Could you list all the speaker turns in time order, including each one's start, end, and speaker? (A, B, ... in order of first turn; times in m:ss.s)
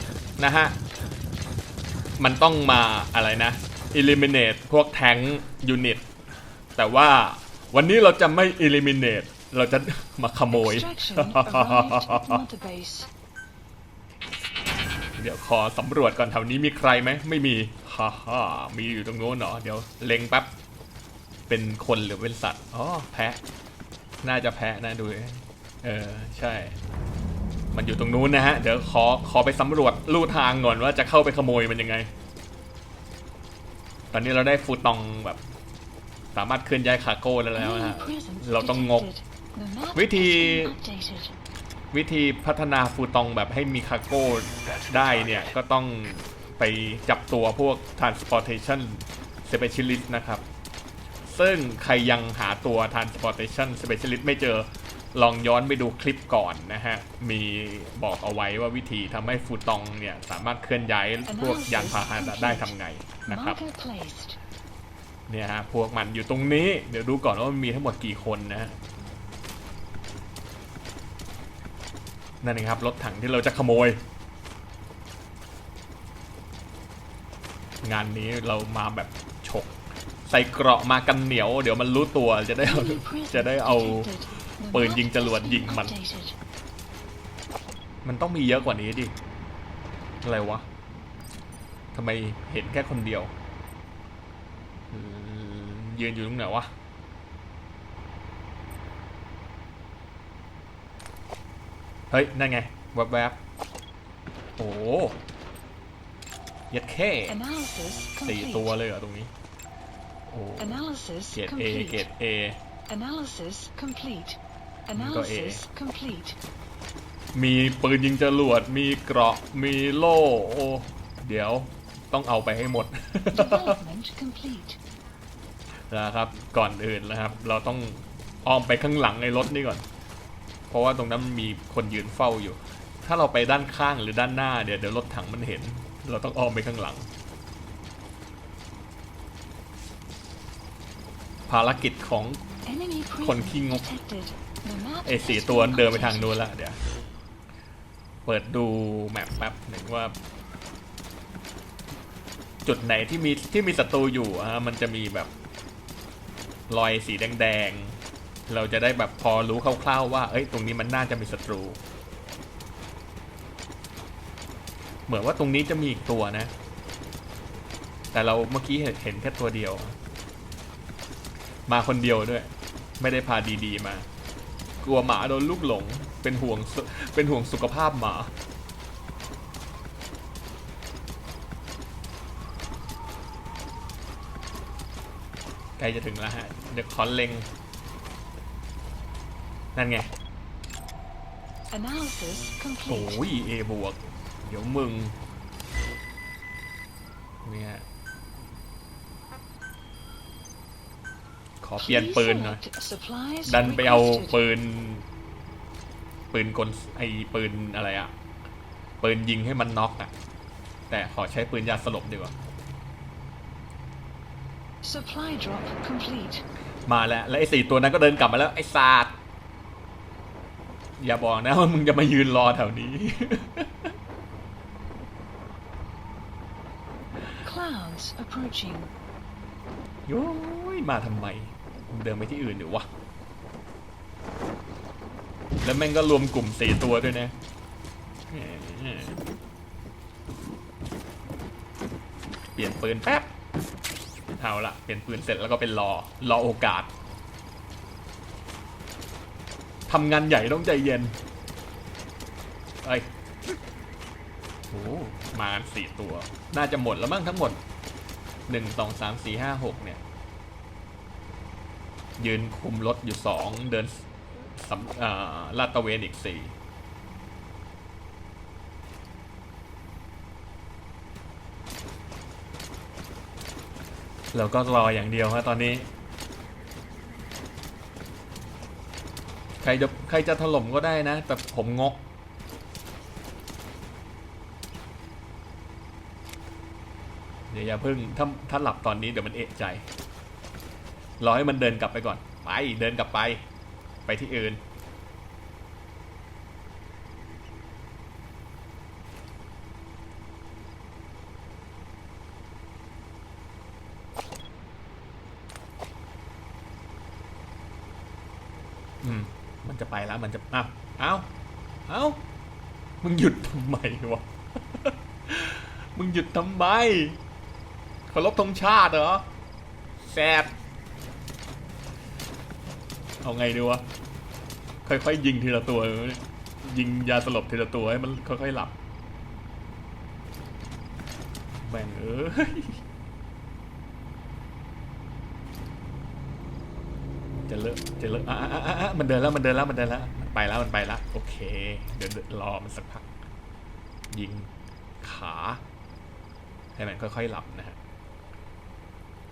0:00.4-0:00.8 A
0:02.2-0:06.0 A
0:06.8-0:12.4 A
0:10.5-0:13.1 B
0:15.2-0:20.5 A
0:21.5-0:23.4 A
0:24.2-0:26.8 A
0:27.7-0:32.1 A
0:34.1-0:35.4 A
0:36.3-0:39.1 A
0:37.5-0:41.3 B
0:39.9-0:40.7 A
0:41.9-0:50.4 A
0:51.2-1:03.6 A
1:01.3-1:02.7 B
1:03.3-1:04.4 B
1:05.3-1:08.8 A
1:12.4-1:14.0 A
1:17.8-1:19.7 A
1:20.2-1:25.9 A
1:22.6-1:26.4 B
1:28.0-1:29.1 A
1:30.2-1:30.6 A
1:31.9-1:33.3 A
1:34.9-1:36.7 A
1:42.1-1:43.4 A
1:44.6-1:45.2 A
1:46.7-1:47.4 A
1:47.3-1:48.8 B
1:48.2-1:49.3 A
1:50.3-1:50.8 A
1:50.6-1:52.1 B
1:51.3-1:52.6 A
1:52.9-1:56.4 B
1:54.9-1:55.6 A
1:57.3-2:03.8 A
2:03.3-2:04.8 B
2:05.9-2:09.8 A
2:10.7-2:17.1 A
2:21.5-2:22.4 A
2:22.6-2:26.5 B
2:23.2-2:23.8 A
2:25.0-2:26.8 A
2:28.2-2:30.1 A
2:32.6-2:35.3 A
2:36.7-2:41.8 A
2:45.1-2:46.5 A
2:48.1-2:50.0 A
2:51.7-2:54.1 A
2:54.8-2:58.3 A
3:05.8-3:07.5 A
3:09.7-3:10.1 A
3:11.7-3:13.2 B
3:12.8-3:15.2 A
3:17.4-3:17.8 A
3:21.6-3:22.6 A
3:21.8-3:24.4 B
3:23.4-3:25.0 A
3:26.3-3:28.1 A
3:29.0-3:30.1 A
3:30.9-3:32.3 A
3:34.8-3:36.4 B
3:36.9-3:39.1 A
3:41.0-3:43.9 A
3:47.4-3:48.9 B
3:50.1-3:52.9 A
3:55.6-3:57.3 A
3:58.3-3:59.2 A
4:02.5-4:03.3 A
4:04.4-4:06.9 A
4:09.9-4:11.2 A
4:14.7-4:17.6 A
4:18.5-4:20.0 A
4:22.2-4:26.5 A
4:34.3-4:35.9 A
4:39.6-4:42.0 A
4:47.5-4:49.8 A
4:51.2-4:53.4 A
4:54.0-4:54.6 A
5:09.0-5:11.3 A
5:11.9-5:12.2 A
5:13.0-5:17.2 A
5:18.1-5:19.2 A
5:20.0-5:20.5 A
5:23.2-5:23.8 A
5:24.8-5:28.7 A
5:31.6-5:32.8 A
5:37.5-5:43.1 A
5:44.1-5:44.5 A
5:45.0-5:45.6 A
5:46.8-5:47.8 A